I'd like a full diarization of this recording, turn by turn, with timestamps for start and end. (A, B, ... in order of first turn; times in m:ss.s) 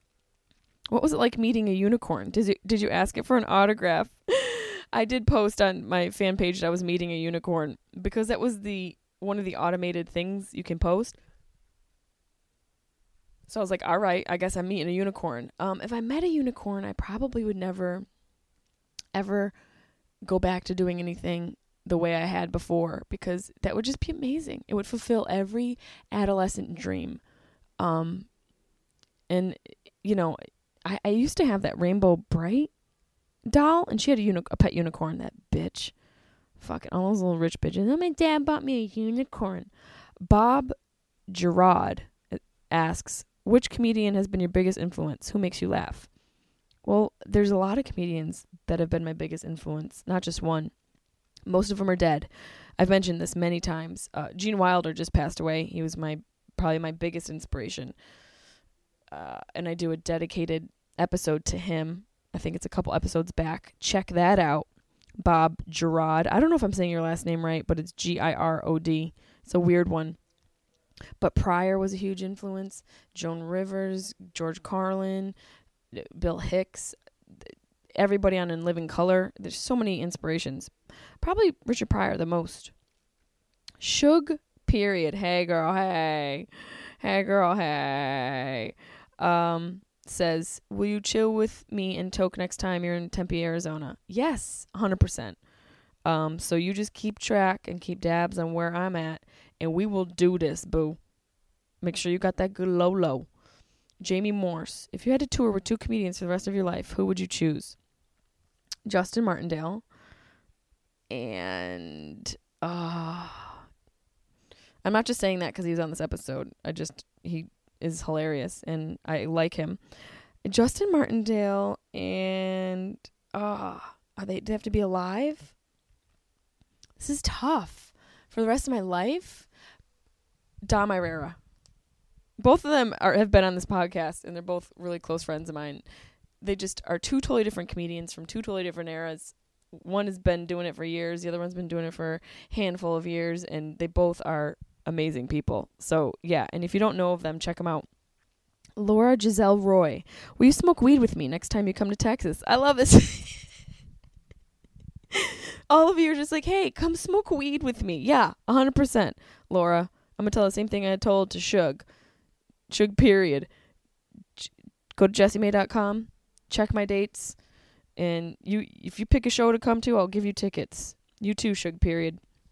0:00.9-0:11.2 A
0:13.5-0:18.1 A
0:19.1-0:19.5 A
0:20.2-0:27.2 A
0:27.8-0:28.3 A
0:29.3-0:32.7 A
0:33.5-0:35.9 A
0:36.6-0:39.7 A
0:40.2-0:40.7 A
0:41.3-0:46.1 A
0:46.8-0:50.7 A
0:51.5-0:58.0 A
0:59.1-1:04.7 A
1:05.2-1:10.2 A
1:11.2-1:15.4 A
1:15.9-1:22.7 A
1:23.8-1:26.5 A
1:27.0-1:35.4 A
1:36.0-1:41.0 A
1:41.8-1:43.3 A
1:44.0-1:47.8 A
1:48.9-1:49.8 A
1:51.1-1:53.6 A
1:54.8-1:59.8 A
2:00.4-2:05.5 A
2:07.0-2:09.5 A
2:10.6-2:11.4 A
2:12.4-2:15.8 A
2:16.4-2:27.9 A
2:28.8-2:33.4 A
2:35.1-2:41.8 A
2:42.7-2:43.5 A
2:44.4-2:47.4 A
2:48.0-2:52.2 A